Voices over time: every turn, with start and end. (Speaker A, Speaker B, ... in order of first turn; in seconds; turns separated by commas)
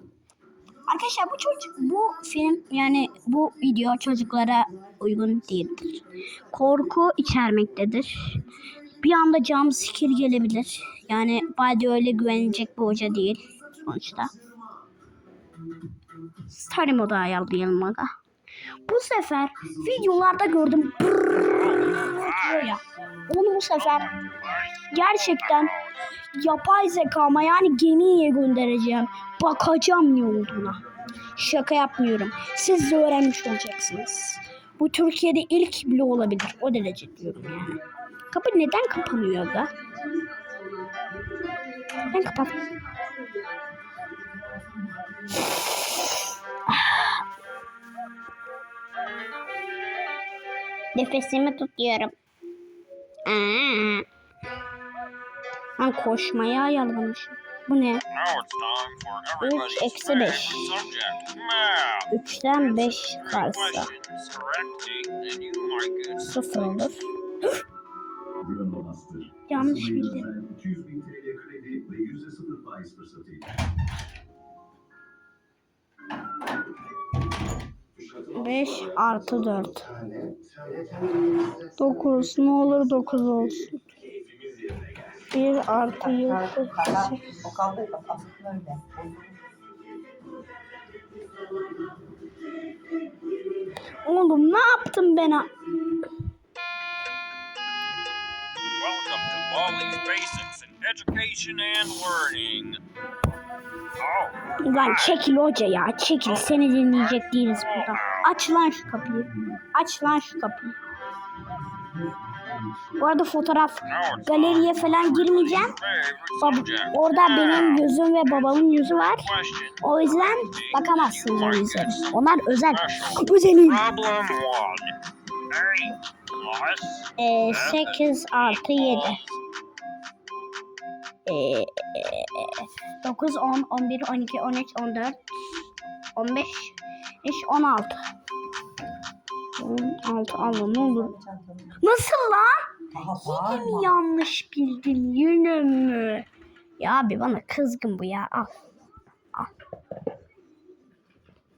Speaker A: 0.9-8.4, Speaker A: 9.0-14.3, Speaker A: 16.4-18.1, Speaker A: 18.8-24.2, Speaker B: 21.3-22.8, Speaker B: 23.8-26.1, Speaker A: 24.9-25.7, Speaker A: 26.3-30.8, Speaker A: 31.3-39.7, Speaker A: 41.9-42.6, Speaker A: 46.7-47.2, Speaker A: 50.9-52.1, Speaker A: 53.2-54.0, Speaker A: 55.8-58.0, Speaker B: 58.1-66.8, Speaker A: 59.4-60.8, Speaker A: 62.1-63.9, Speaker A: 66.2-67.1, Speaker C: 68.5-69.3, Speaker A: 69.5-70.3, Speaker C: 70.4-73.3, Speaker A: 78.3-79.9, Speaker A: 81.8-83.9, Speaker A: 85.3-87.5, Speaker C: 86.9-89.0, Speaker A: 94.0-95.5, Speaker B: 98.8-102.8, Speaker B: 104.0-105.2, Speaker A: 104.6-110.8, Speaker B: 106.2-108.3, Speaker A: 113.0-115.8, Speaker B: 113.9-125.0, Speaker A: 116.4-123.8, Speaker B: 125.5-129.3, Speaker A: 127.2-129.2, Speaker A: 131.2-135.6, Speaker A: 136.1-138.0, Speaker A: 139.6-141.2, Speaker A: 141.8-146.3, Speaker C: 143.0-143.7, Speaker A: 146.8-148.5